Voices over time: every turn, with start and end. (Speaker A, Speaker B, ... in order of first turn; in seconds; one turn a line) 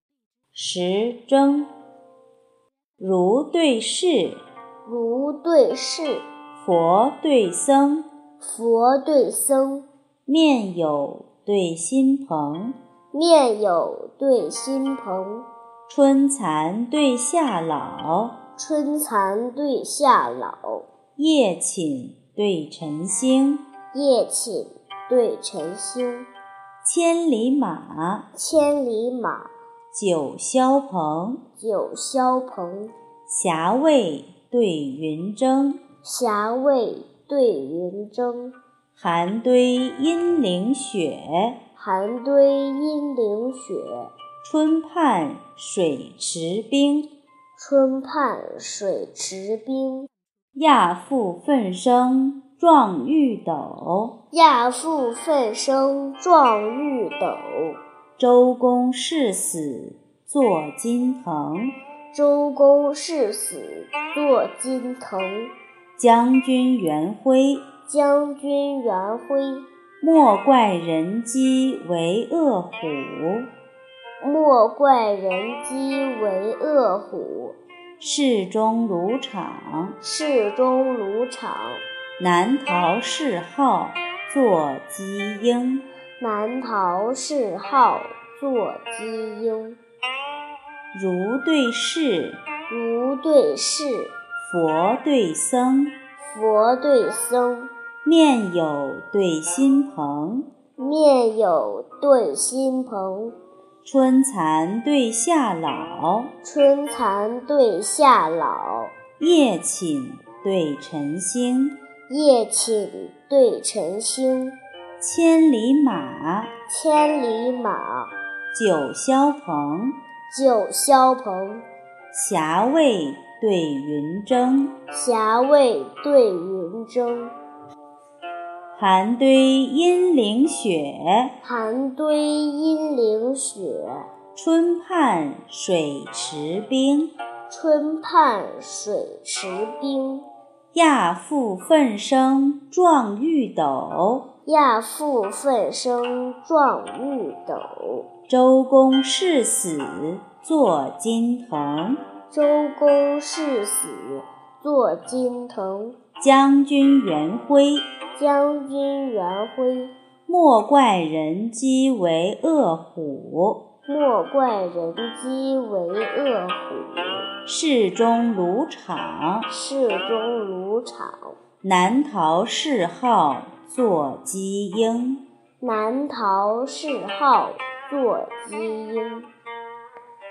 Speaker A: 0.5-1.7
Speaker A: 3.0-4.4
Speaker B: 4.9-6.3
Speaker A: 6.6-8.1
Speaker B: 8.4-9.9
Speaker A: 10.3-12.8
Speaker B: 13.1-15.5
Speaker A: 15.9-18.4
Speaker B: 18.6-20.9
Speaker A: 21.2-23.6
Speaker B: 23.9-26.3
Speaker A: 26.8-28.3
Speaker B: 28.3-29.5
Speaker A: 29.9-31.4
Speaker B: 31.6-32.9
Speaker A: 33.3-35.8
Speaker B: 36.0-38.5
Speaker A: 39.0-41.6
Speaker B: 41.8-44.1
Speaker A: 44.4-47.1
Speaker B: 47.6-50.1
Speaker A: 50.5-54.1
Speaker B: 54.3-57.8
Speaker A: 58.2-61.8
Speaker B: 62.1-65.5
Speaker A: 66.0-67.7
Speaker B: 67.9-69.7
Speaker A: 70.0-73.5
Speaker B: 74.2-77.6
Speaker A: 78.0-80.0
Speaker B: 80.0-81.8
Speaker A: 82.2-85.9
Speaker B: 86.2-89.8
Speaker A: 90.9-92.4
Speaker B: 92.7-94.1
Speaker A: 94.4-96.0
Speaker B: 96.2-97.7
Speaker A: 98.0-100.5
Speaker B: 100.8-103.3
Speaker A: 103.8-106.3
Speaker B: 106.4-108.9
Speaker A: 109.2-111.8
Speaker B: 112.1-114.6
Speaker A: 115.0-116.5
Speaker B: 116.7-118.1
Speaker A: 118.5-120.0
Speaker B: 120.3-121.7
Speaker A: 122.1-124.7
Speaker B: 124.9-127.3
Speaker A: 128.7-131.3
Speaker B: 131.4-134.1
Speaker A: 134.3-137.1
Speaker B: 137.5-140.3
Speaker A: 140.7-144.2
Speaker B: 144.5-148.1
Speaker A: 148.3-152.0
Speaker B: 152.3-156.0
Speaker A: 156.2-157.9
Speaker B: 158.2-159.9
Speaker A: 160.3-163.6
Speaker B: 163.9-167.3
Speaker A: 167.5-169.5
Speaker B: 169.5-171.4
Speaker A: 171.6-175.2
Speaker B: 175.6-179.3